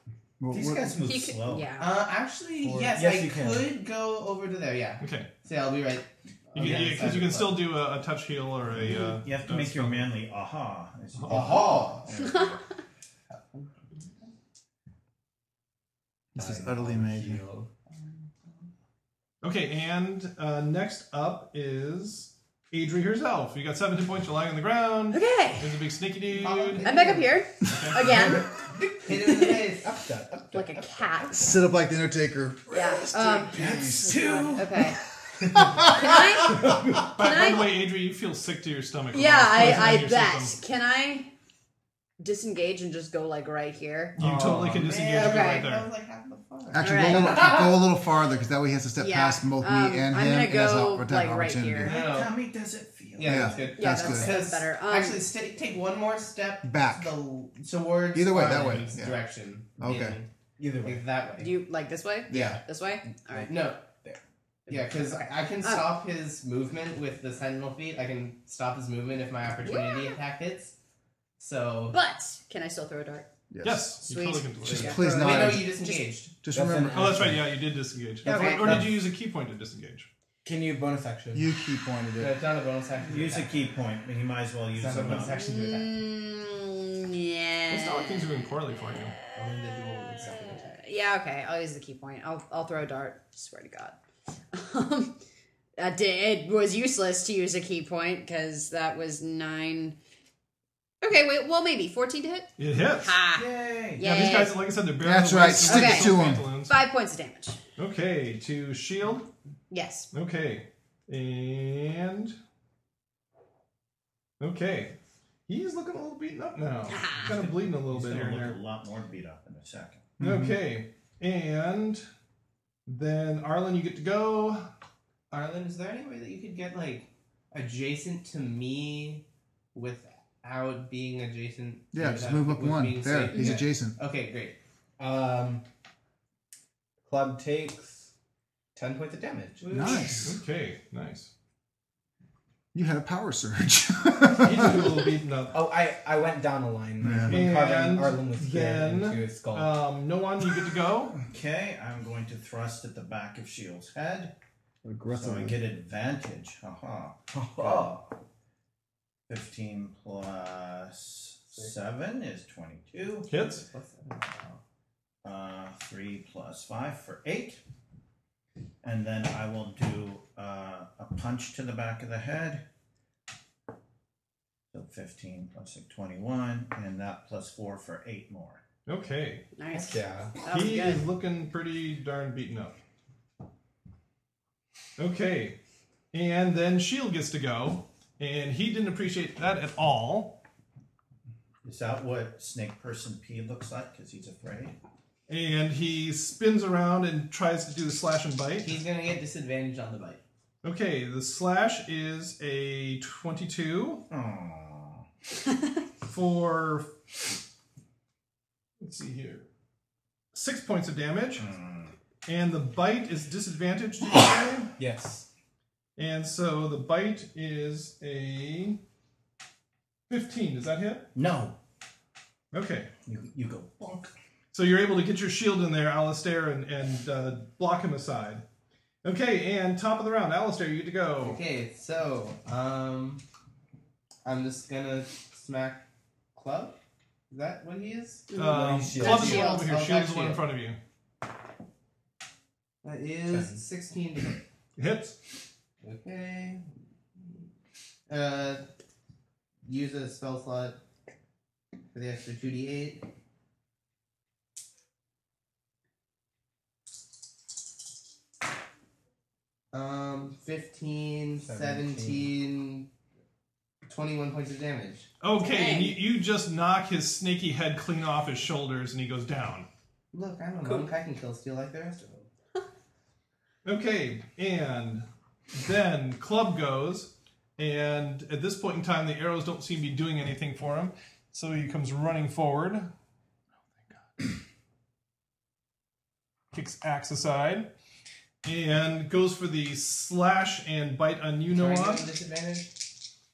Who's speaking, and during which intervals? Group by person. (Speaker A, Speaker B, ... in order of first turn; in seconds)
Speaker A: 0.4-1.0, 16.4-17.4, 31.3-34.3, 35.5-36.4, 44.2-44.9, 46.7-52.0, 53.2-54.4, 56.6-57.1, 58.1-59.2, 59.8-60.2, 73.5-74.0, 74.6-75.7, 76.4-77.4, 81.3-82.3, 105.0-106.4, 120.2-120.6, 131.9-134.0, 139.7-140.4, 142.7-144.9, 147.0-147.4, 154.8-155.6
Speaker B: 0.5-1.7, 8.9-12.6, 33.5-34.7, 51.8-53.6, 83.0-85.4, 103.3-104.5, 117.2-120.1, 151.2-154.3, 155.1-158.1, 159.3-163.3, 165.2-167.6, 168.8-172.6, 174.7-178.6, 191.6-194.8, 204.1-205.0, 211.4-211.9, 221.1-221.6, 223.1-224.1
Speaker C: 1.0-1.9, 25.1-25.8, 26.8-28.6, 29.3-29.6, 30.5-31.5, 32.7-35.0, 35.6-37.8, 39.1-41.3, 42.2-44.2, 45.2-45.7, 46.8-47.3, 49.0-51.9, 53.8-55.2, 61.4-63.5, 64.8-65.9, 69.6-70.2, 71.9-73.2, 74.0-76.1, 78.2-78.8, 85.1-88.2, 89.6-94.0, 94.5-95.2, 95.8-100.0, 101.0-104.6, 105.7-107.6, 109.7-110.1, 116.9-117.3, 179.6-181.1, 238.9-239.7, 265.4-266.0
Speaker D: 1.8-7.6, 11.3-12.5, 13.3-14.3, 26.3-27.3, 28.8-30.0, 44.8-47.7, 51.8-52.4, 53.1-60.3, 60.8-61.5, 62.3-62.6, 63.5-63.9, 64.7-70.7, 71.4-71.9, 75.1-76.3, 78.3-78.8, 82.2-83.8, 84.7-86.0, 89.3-90.7, 125.3-134.6, 139.6-140.3, 163.3-164.6, 198.6-200.2, 231.2-233.2, 234.2-236.8, 237.3-238.3, 239.2-240.4, 242.8-244.4, 245.8-246.6, 248.1-248.6, 249.6-250.8, 251.9-253.1, 259.7-262.9, 263.9-265.1, 270.1-272.3, 291.5-292.9
Speaker E: 2.6-3.7, 16.4-17.7, 29.8-31.3, 60.6-61.1, 76.5-77.4, 80.4-81.5, 135.0-135.6, 137.1-138.1, 138.7-139.9, 145.5-149.8, 157.3-158.1, 179.7-180.5, 214.8-215.3, 238.3-239.5, 243.3-243.6, 261.4-262.3, 270.6-270.9
Speaker F: 5.0-5.3, 6.5-10.1, 11.1-11.6, 19.4-26.9, 27.7-28.1, 36.9-40.5, 44.2-45.9, 73.6-75.0, 76.9-80.1, 87.7-89.2, 102.6-103.2, 104.0-106.8, 107.8-109.3, 110.1-112.3, 114.4-115.0, 115.5-118.6, 120.2-122.0, 122.8-124.7, 140.2-141.3, 144.3-145.6, 147.3-151.2, 163.3-163.6, 178.9-179.5, 180.4-182.8, 185.0-185.6, 186.1-190.4, 195.3-198.8, 200.6-204.0, 206.1-206.9, 208.8-209.5, 210.3-211.5, 212.3-214.7, 216.0-218.8, 220.1-221.1, 222.5-222.9, 224.5-228.4, 229.0-231.4, 238.3-240.8, 244.8-245.2, 265.2-269.7, 273.6-282.9, 283.9-284.2, 286.5-287.7, 288.4-292.1